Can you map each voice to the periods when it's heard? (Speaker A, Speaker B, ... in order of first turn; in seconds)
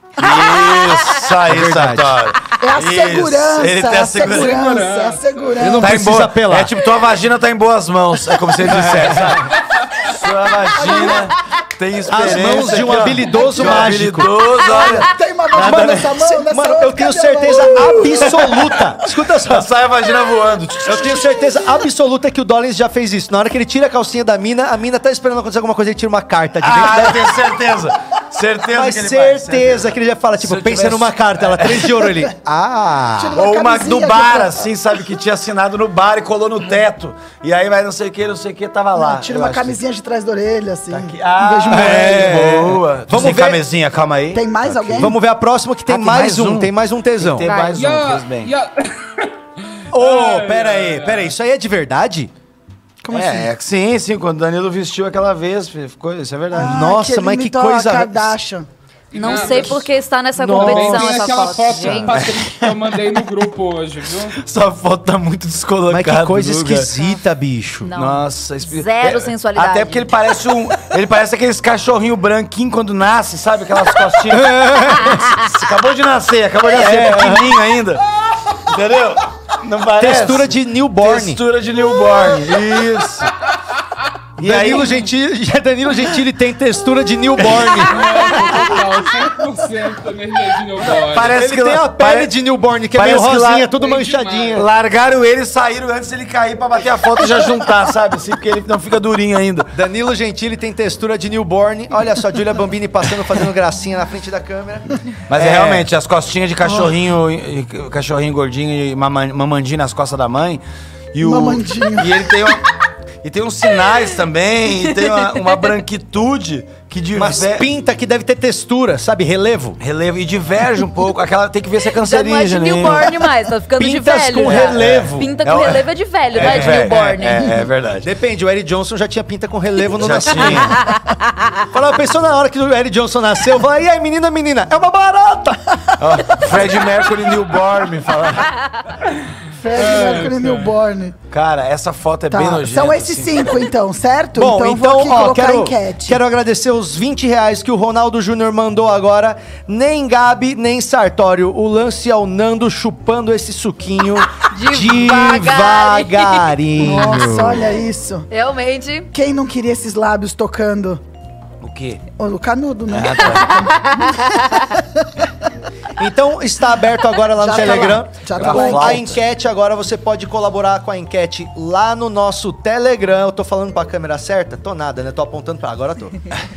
Speaker A: 0.2-4.6, 5.8-16.0, 18.2-18.7, 19.4-21.3, 26.6-31.9, 33.3-39.8, 40.9-45.1, 45.9-48.5, 53.1-56.8, 62.1-62.7, 64.4-66.9, 67.9-74.5, 75.3-78.0, 78.7-83.3, 84.4-85.1, 90.8-92.3, 92.9-93.7, 94.5-99.7, 105.3-110.6, 111.1-112.6, 113.2-117.7, 119.8-123.3, 124.4-128.1, 130.0-130.8, 136.0-138.5, 141.3-143.6, 161.6-162.0, 162.9-163.7, 168.3-169.2
Speaker B: 1.4-2.2, 5.6-6.7, 8.6-9.4, 12.1-15.0, 15.5-19.7, 20.8-27.4, 28.7-33.4, 41.7-43.6, 45.0-47.5, 49.9-52.3, 56.5-58.4, 60.4-61.8, 65.9-67.9, 74.3-75.3, 76.7-77.6, 80.0-81.4, 84.4-88.3, 91.3-94.7, 99.7-105.9, 117.1-119.8, 123.8-125.3, 126.3-126.9, 128.0-130.8, 131.7-135.6, 144.3-157.7, 166.0-176.2
Speaker C: 2.6-6.0, 10.8-11.2, 14.8-18.5, 33.1-34.7, 38.9-42.5, 44.3-45.1, 53.0-53.5, 56.5-58.7, 111.2-112.1, 139.6-141.1, 142.3-146.2, 156.8-158.3, 159.1-161.0, 162.2-165.3, 167.4-169.0
Speaker D: 4.2-5.5, 47.6-49.3, 49.9-51.3, 59.1-59.9, 60.5-64.4, 87.8-91.4, 93.8-94.6, 139.7-140.7
Speaker E: 47.4-47.8, 59.1-62.2, 67.8-70.1, 115.0-115.6, 122.0-127.6, 130.6-131.5, 154.4-156.5, 158.3-159.1, 163.7-164.7